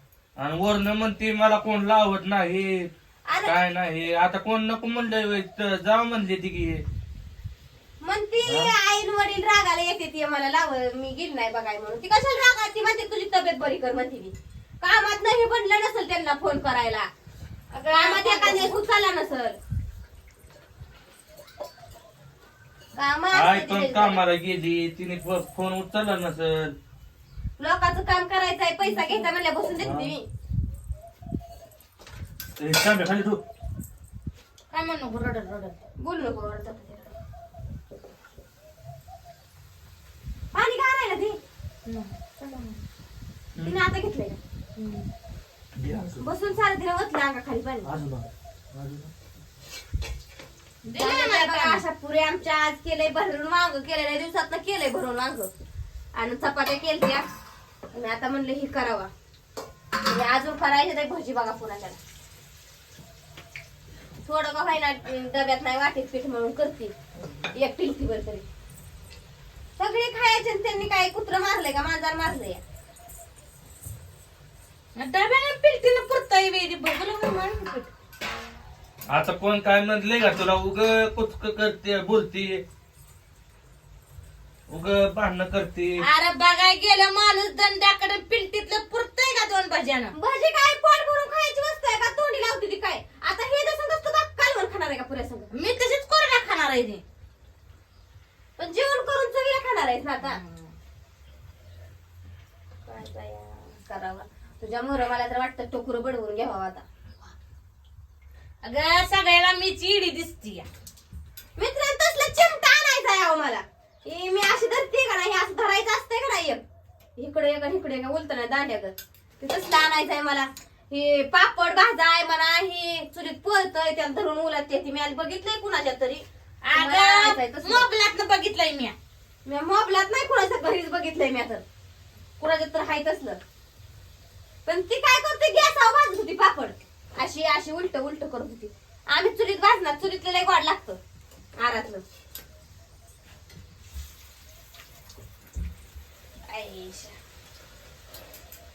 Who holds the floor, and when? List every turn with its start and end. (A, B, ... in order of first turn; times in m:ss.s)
0:00.4-0:02.9 A
0:03.3-0:03.6 B
0:03.4-0:06.8 A
0:08.0-0:17.1 B
0:08.4-0:08.7 A
0:17.7-0:18.8 C
0:17.9-0:19.6 B
0:22.9-0:24.2 B
0:23.3-0:26.7 A
0:27.6-0:30.2 B
0:28.8-0:29.3 C
0:29.8-0:30.1 A
0:32.6-0:33.4 A
0:34.7-0:35.8 C
0:36.0-0:37.1 B
0:40.5-0:41.4 B
0:41.8-0:42.8 C
0:43.6-0:44.4 B
0:44.8-0:45.0 C
0:45.8-0:46.3 A
0:46.2-0:47.9 B
0:47.8-0:49.1 A
0:50.8-0:51.8 C
0:51.0-0:55.5 B
0:56.1-0:57.3 B
0:57.9-0:59.1 B
1:00.0-1:02.0 B
1:04.2-1:06.9 B
1:07.5-1:08.4 B
1:09.8-1:12.6 B
1:15.0-1:17.9 C
1:19.1-1:22.6 A
1:24.7-1:26.0 A
1:26.0-1:30.1 C
1:30.1-1:35.5 B
1:35.5-1:37.0 C
1:38.6-1:40.4 B
1:40.2-1:40.7 C
1:42.8-1:46.8 B
1:48.6-1:50.7 C
1:51.6-1:56.6 B
1:57.2-2:06.2 B
2:06.6-2:09.0 C
2:06.7-2:07.8 B
2:09.4-2:11.6 B
2:12.4-2:13.4 B
2:14.6-2:21.0 B
2:21.6-2:22.0 B
2:26.5-2:27.2 B